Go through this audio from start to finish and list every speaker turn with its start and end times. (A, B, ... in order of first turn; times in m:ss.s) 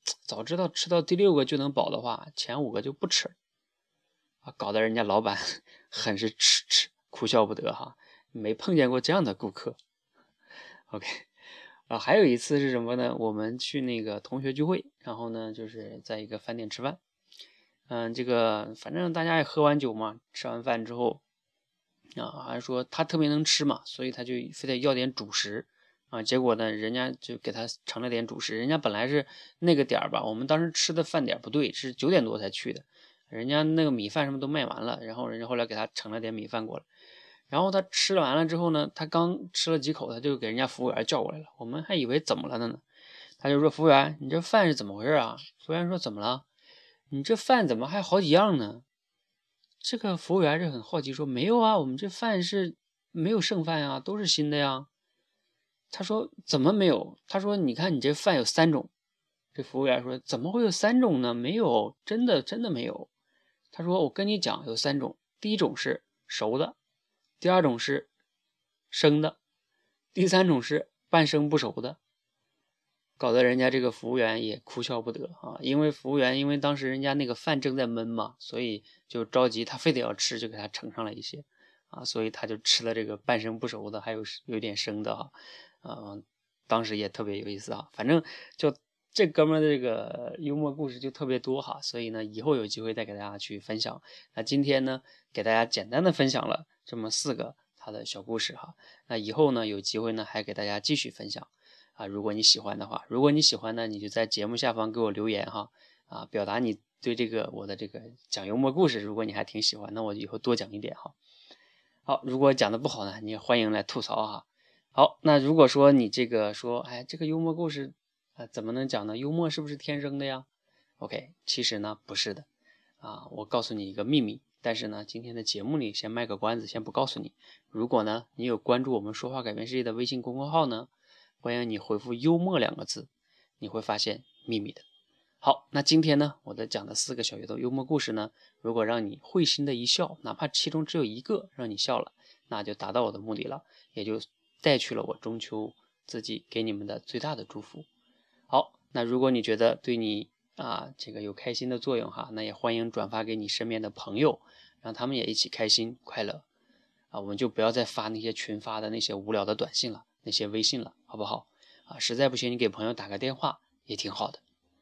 0:00.2-0:03.3 A
0:04.4-0:09.8 A
0:10.9-0:11.3 A
0:11.9-0:17.0 A
0:17.9-0:21.2 A
0:22.2-0:36.9 A
0:37.5-0:42.8 A
0:43.4-0:46.4 A
0:47.1-0:48.8 A
0:49.8-0:54.9 A
0:55.9-0:58.9 A
0:59.6-1:03.1 A
1:03.7-1:06.8 A
1:07.4-1:08.1 A
1:08.9-1:09.4 A
1:10.1-1:12.0 A
1:13.2-1:51.2 A
1:52.1-2:00.5 A
2:01.0-2:02.5 A
2:03.0-2:10.9 A
2:11.4-2:13.1 A
2:13.6-2:14.8 A
2:15.4-2:27.9 A
2:28.5-2:36.4 A
2:37.1-2:44.4 A